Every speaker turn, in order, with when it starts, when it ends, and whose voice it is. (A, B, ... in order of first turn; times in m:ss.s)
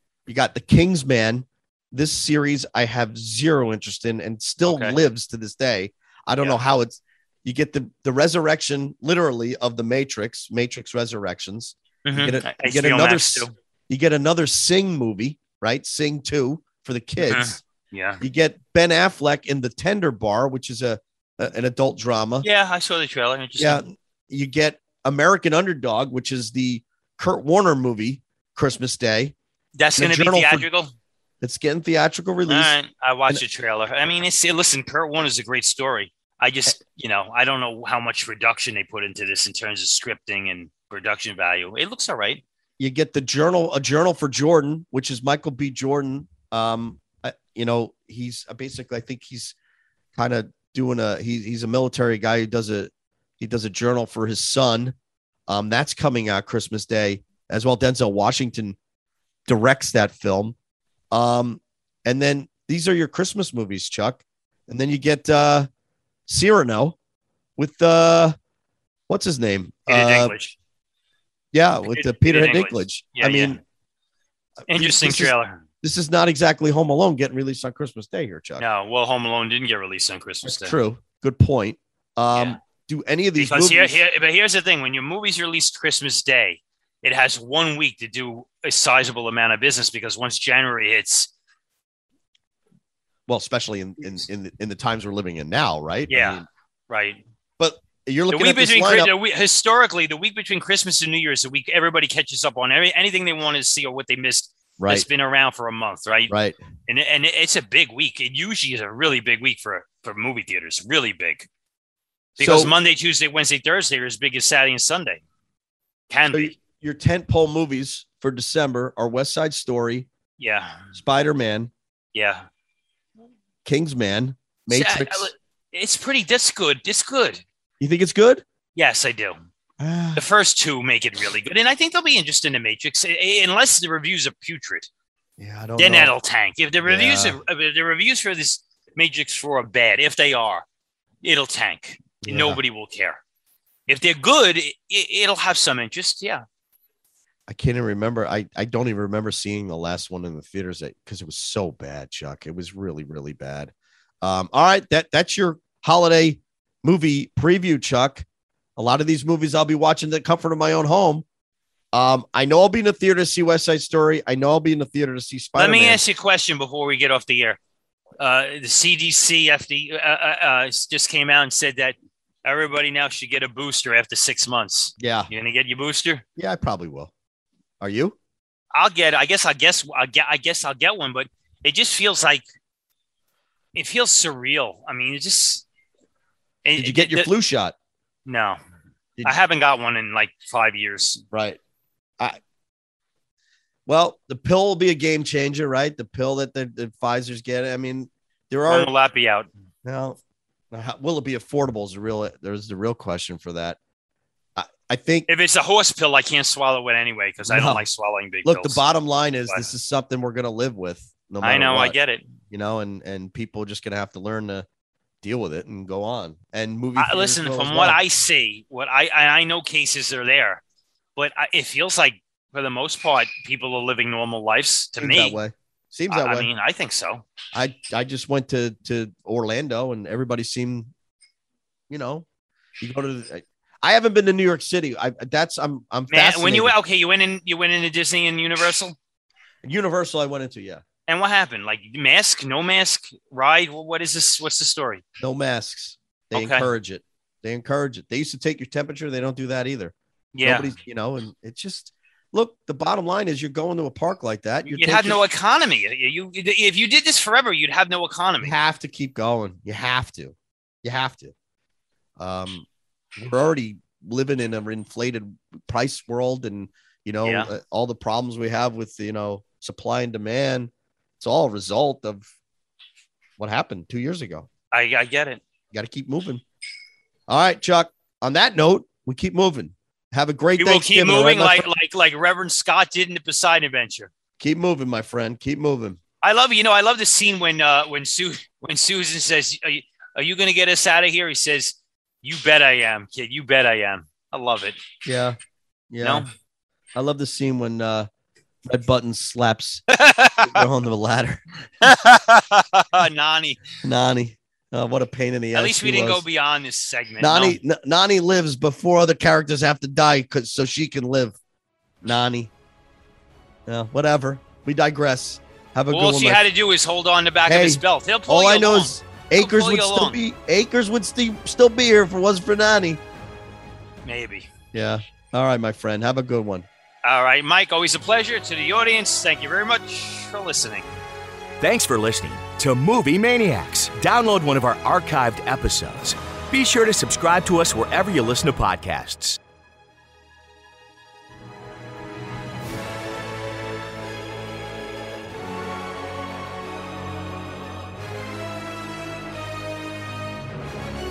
0:00.2-0:17.6 A
0:04.6-0:05.0 B
0:12.0-0:13.5 B
0:17.2-0:18.2 B
0:18.2-0:22.4 A
0:22.4-0:23.8 B
0:23.6-0:29.3 A
0:29.8-0:30.9 B
0:30.0-0:30.6 A
0:31.4-0:32.7 A
0:32.5-0:42.4 B
0:42.8-0:49.5 A
0:50.2-0:54.9 A
0:55.5-0:58.8 A
0:59.5-1:00.6 A
1:01.1-1:05.7 A
1:06.3-1:07.0 A
1:07.6-1:08.4 A
1:09.1-1:10.3 A
1:09.9-1:10.6 B
1:11.5-1:13.6 A
1:11.9-1:13.6 B
1:14.7-1:15.6 B
1:14.7-1:18.6 A
1:18.6-1:20.8 B
1:20.4-1:24.0 A
1:22.3-1:22.6 B
1:23.4-1:31.3 B
1:33.3-1:36.4 A
1:36.1-1:37.2 B
1:37.6-1:39.1 A
1:38.3-1:46.3 B
1:44.8-1:45.0 A
1:46.3-1:46.6 A
1:46.9-1:51.5 B
1:52.4-1:52.7 A
1:52.4-1:55.2 B
1:56.1-1:56.6 B
1:56.3-2:00.1 A
2:00.4-2:00.8 B
2:00.9-2:01.7 A
2:02.1-2:02.4 B
2:03.6-2:05.3 A
2:04.7-2:07.4 B
2:07.8-2:08.4 A
2:08.8-2:09.4 B
2:09.8-2:10.2 A
2:10.1-2:14.9 B
2:15.4-2:16.1 A
2:15.8-2:20.6 B
2:16.8-2:17.4 A
2:21.2-2:23.2 B
2:22.2-2:22.6 A
2:23.9-2:26.4 B
2:27.5-2:38.2 A
2:38.8-2:41.2 A
2:41.9-2:46.0 A
2:45.6-2:47.6 B
2:48.2-2:56.2 B
2:55.0-2:55.3 A
2:56.4-2:57.1 A
2:57.8-2:58.2 A
2:58.7-3:02.4 B
3:03.7-3:05.6 B
3:06.6-3:07.3 B
3:06.8-3:07.7 A
3:08.2-3:08.6 B
3:09.2-3:11.2 B
3:11.3-3:11.6 A
3:13.8-3:18.9 A
3:18.7-3:19.5 B
3:19.8-3:20.2 A
3:20.7-3:23.8 A
3:24.6-3:25.3 A
3:25.3-3:28.8 B
3:27.4-3:27.9 A
3:28.4-3:32.0 A
3:31.4-3:32.2 B
3:32.5-3:34.6 A
3:35.2-3:38.0 A
3:37.0-3:40.6 B
3:41.2-3:45.4 B
3:45.0-3:46.5 A
3:46.1-3:47.2 B
3:47.5-3:50.9 A
3:51.9-3:52.2 A
3:52.8-3:56.7 A
3:56.1-3:59.0 B
3:59.6-4:00.8 A
4:01.1-4:05.0 B
4:05.2-4:15.2 A
4:06.3-4:06.7 B
4:10.3-4:10.7 B
4:14.7-4:18.5 B
4:18.4-4:21.3 A
4:22.2-4:32.3 A
4:27.2-4:27.5 B
4:33.4-4:34.5 A
4:34.7-4:35.4 B
4:35.7-4:36.4 A
4:37.3-4:41.7 A
4:40.6-4:44.1 B
4:44.4-4:46.0 A
4:46.2-4:54.8 B
4:55.0-4:55.4 A
4:55.9-4:56.2 A
4:56.0-4:56.3 B
4:56.9-4:58.1 A
4:58.6-4:59.8 A
4:59.9-5:00.6 B
5:00.4-5:01.4 A
5:01.8-5:03.6 B
5:03.8-5:06.2 A
5:05.5-5:07.6 B
5:07.2-5:11.4 A
5:12.0-5:12.5 A
5:13.6-5:16.4 A
5:15.9-5:20.2 B
5:17.4-5:23.0 A
5:24.0-5:24.5 B
5:24.7-5:26.6 A
5:27.0-5:30.9 B
5:31.6-5:39.4 C